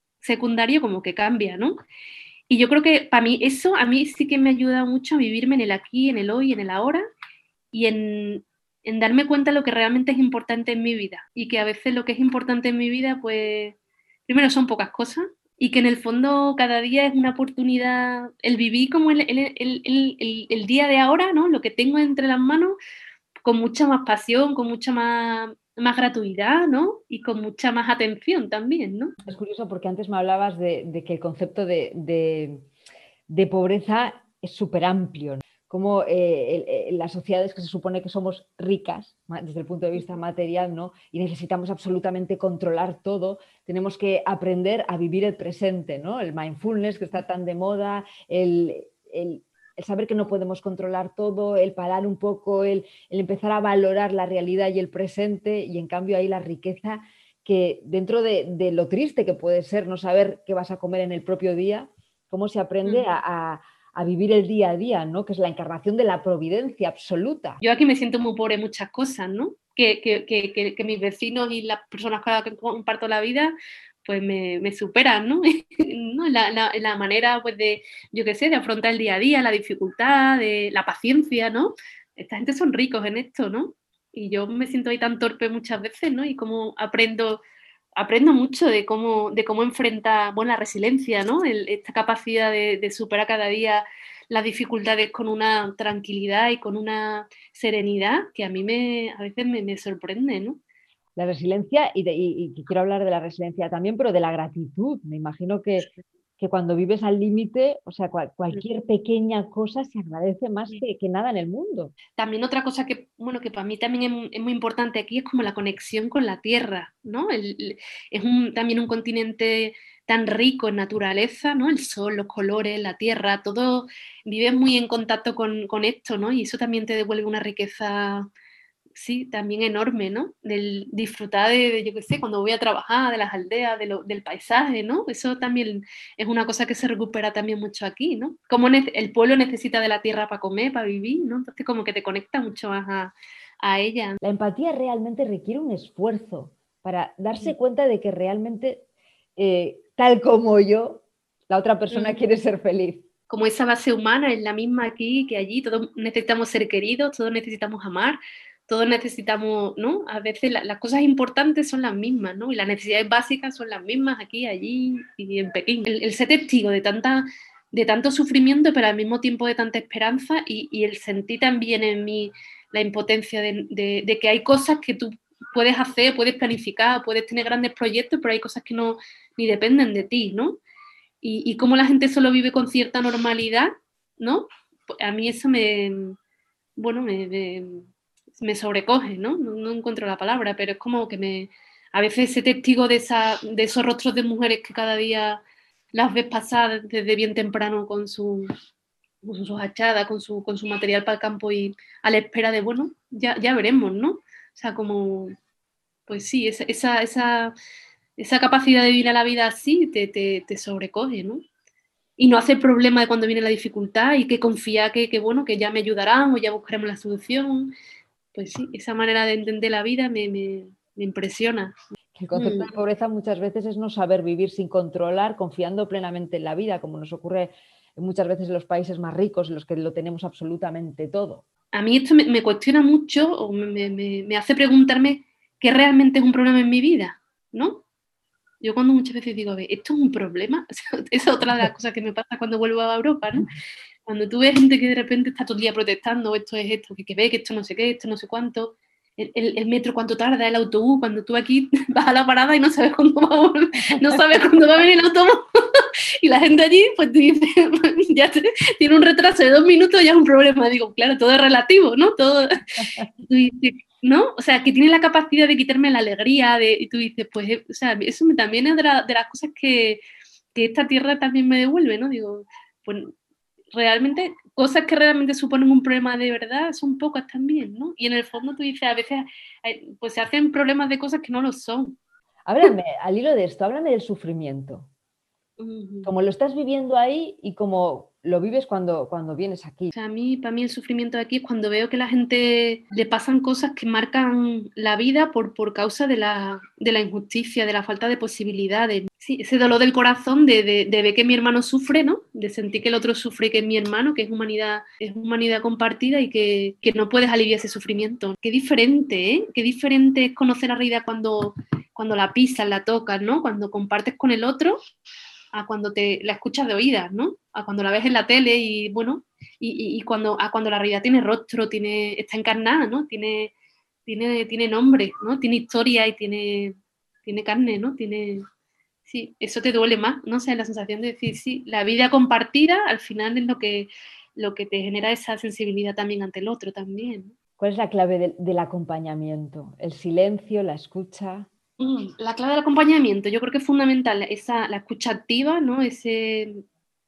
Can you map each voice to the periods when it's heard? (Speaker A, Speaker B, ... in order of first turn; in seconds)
Speaker A: 0.2-1.8, 2.5-7.0, 7.7-13.8, 14.3-22.8, 23.4-29.2, 67.6-87.4, 88.0-100.6, 112.2-128.3, 128.9-144.2, 151.9-152.2, 153.3-180.6, 181.2-184.5, 185.0-186.2, 186.8-198.5, 199.2-205.3, 206.1-207.5, 208.2-211.4, 212.2-217.7, 218.3-221.8, 222.3-222.7, 231.7-237.8, 238.6-243.5, 244.1-262.7, 263.2-270.0, 270.5-273.1, 273.7-282.0, 285.6-286.1, 289.9-314.8, 315.5-323.5, 324.1-328.4, 329.1-337.4, 341.8-346.6
Speaker B: 29.2-32.7, 33.3-67.6, 101.2-111.9, 144.2-148.8, 149.4-153.1, 222.2-231.4, 253.9-254.2, 262.8-263.1, 282.5-284.9, 286.0-289.9, 337.6-341.5